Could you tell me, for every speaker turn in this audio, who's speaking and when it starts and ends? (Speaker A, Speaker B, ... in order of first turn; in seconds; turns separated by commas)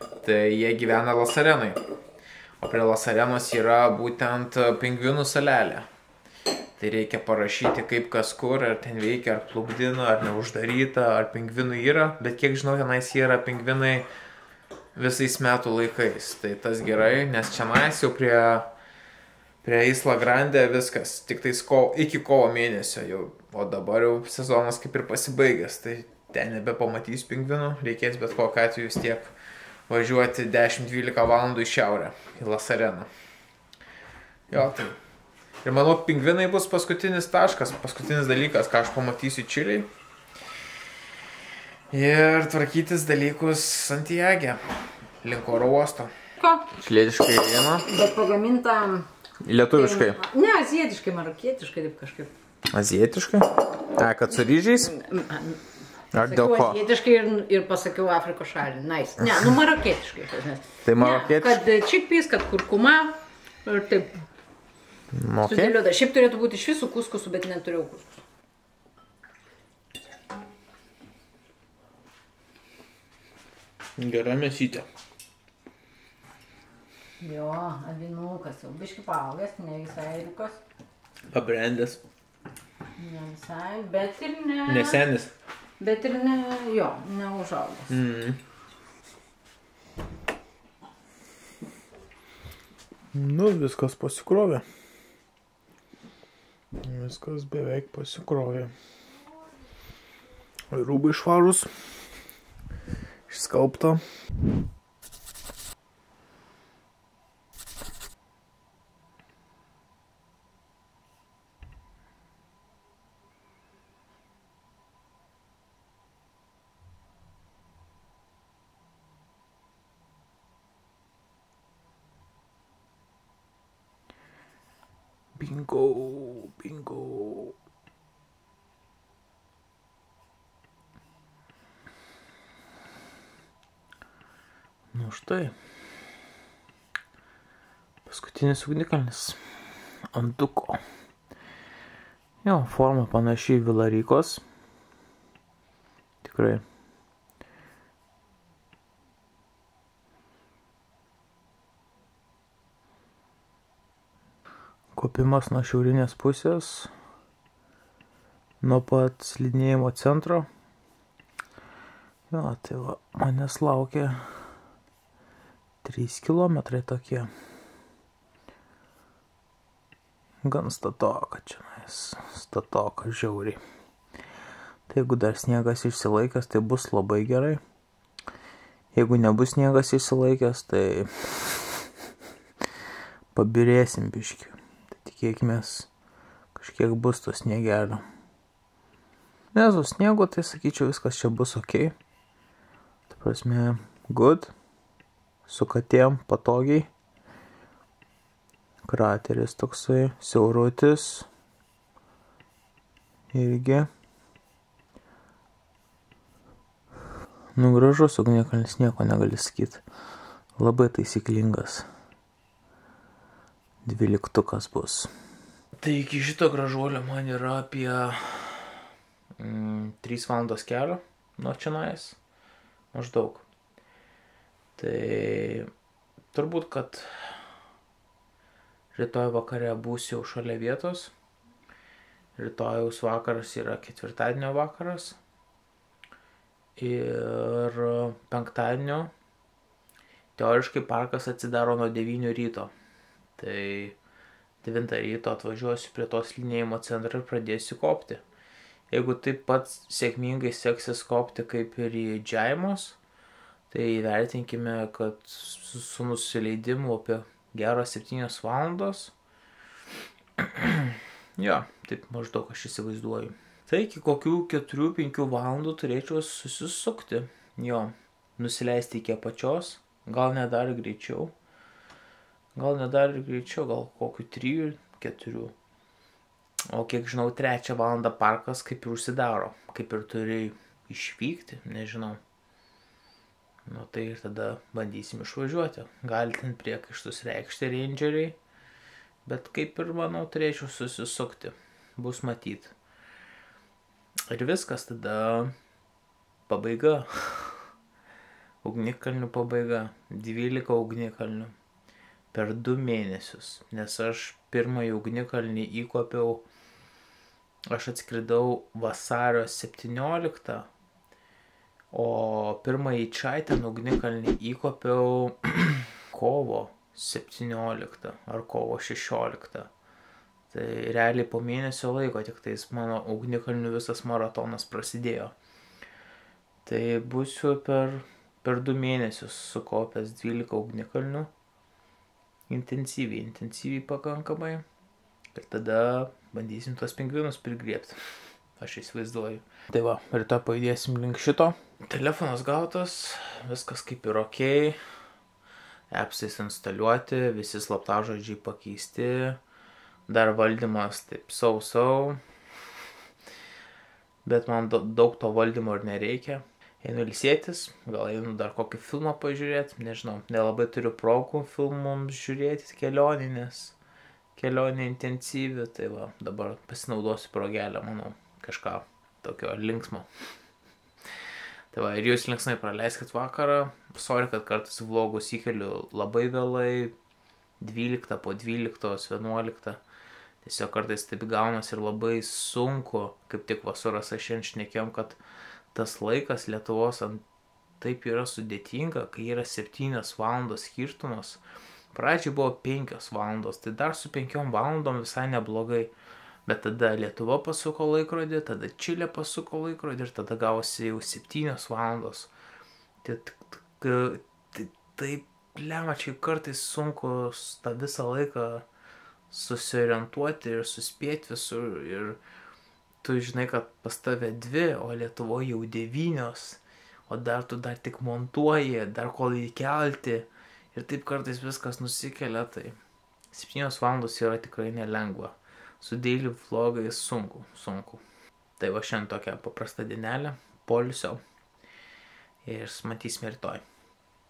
Speaker A: 0.2-1.8, Speaker A: 2.6-5.9, Speaker A: 6.8-14.1, Speaker A: 14.9-18.7, Speaker A: 19.6-29.3, Speaker A: 29.9-33.1, Speaker A: 34.5-35.0, Speaker A: 35.6-39.9, Speaker A: 41.9-44.6, Speaker A: 45.2-46.1, Speaker B: 46.4-46.7, Speaker A: 46.8-47.9, Speaker B: 47.9-49.1, Speaker A: 49.4-50.2, Speaker B: 49.7-52.3, Speaker A: 52.7-54.9, Speaker B: 54.8-55.6, Speaker A: 56.1-56.8, Speaker B: 56.2-63.1, Speaker A: 60.9-61.6, Speaker B: 63.6-64.1, Speaker A: 65.1-65.8, Speaker B: 65.4-68.2, Speaker A: 74.0-74.9, Speaker B: 77.2-80.6, Speaker A: 81.3-82.0, Speaker B: 83.0-85.0, Speaker A: 84.7-85.3, Speaker B: 85.8-87.9, Speaker A: 87.9-88.4, Speaker A: 93.1-94.7, Speaker A: 96.8-98.7, Speaker A: 100.7-101.7, Speaker A: 103.3-104.0, Speaker A: 125.4-127.5, Speaker A: 134.9-135.5, Speaker A: 138.1-139.4, Speaker A: 140.1-140.8, Speaker A: 142.4-144.4, Speaker A: 146.2-146.6, Speaker A: 154.9-156.9, Speaker A: 158.6-160.5, Speaker A: 162.3-164.2, Speaker A: 165.8-167.3, Speaker A: 170.4-173.6, Speaker A: 174.9-177.6, Speaker A: 178.9-181.8, Speaker A: 183.3-185.9, Speaker A: 186.6-188.0, Speaker A: 189.5-191.9, Speaker A: 193.1-194.5, Speaker A: 195.5-196.9, Speaker A: 198.9-201.3, Speaker A: 203.3-203.9, Speaker A: 207.6-209.8, Speaker A: 210.6-211.9, Speaker A: 213.8-215.1, Speaker A: 215.8-218.7, Speaker A: 219.4-222.2, Speaker A: 222.9-223.5, Speaker A: 224.8-225.7, Speaker A: 226.3-227.1, Speaker A: 228.9-231.1, Speaker A: 232.4-235.2, Speaker A: 236.8-239.1, Speaker A: 240.4-242.7, Speaker A: 243.4-244.0, Speaker A: 244.6-248.2, Speaker A: 248.9-253.0, Speaker A: 253.7-259.1, Speaker A: 260.4-271.3, Speaker A: 272.6-275.5, Speaker A: 276.7-282.2, Speaker A: 283.7-288.4, Speaker A: 289.2-292.7, Speaker A: 294.3-295.5, Speaker A: 296.5-297.6, Speaker A: 298.6-301.5, Speaker A: 302.3-306.4, Speaker A: 307.7-310.7, Speaker A: 311.9-319.7, Speaker A: 320.5-325.3, Speaker A: 326.6-331.3, Speaker A: 332.5-334.6, Speaker A: 335.3-337.9, Speaker A: 338.6-344.8, Speaker A: 345.9-349.4, Speaker A: 350.1-352.2, Speaker A: 354.2-363.8, Speaker A: 364.4-370.1, Speaker A: 371.7-376.9, Speaker A: 377.6-379.8, Speaker A: 380.4-385.2, Speaker A: 385.7-387.2, Speaker A: 387.8-391.4, Speaker A: 391.9-395.9, Speaker A: 396.5-402.3, Speaker A: 403.0-408.6, Speaker A: 409.3-412.2, Speaker A: 413.0-422.8, Speaker A: 423.3-428.0, Speaker A: 428.6-431.2, Speaker A: 432.4-433.6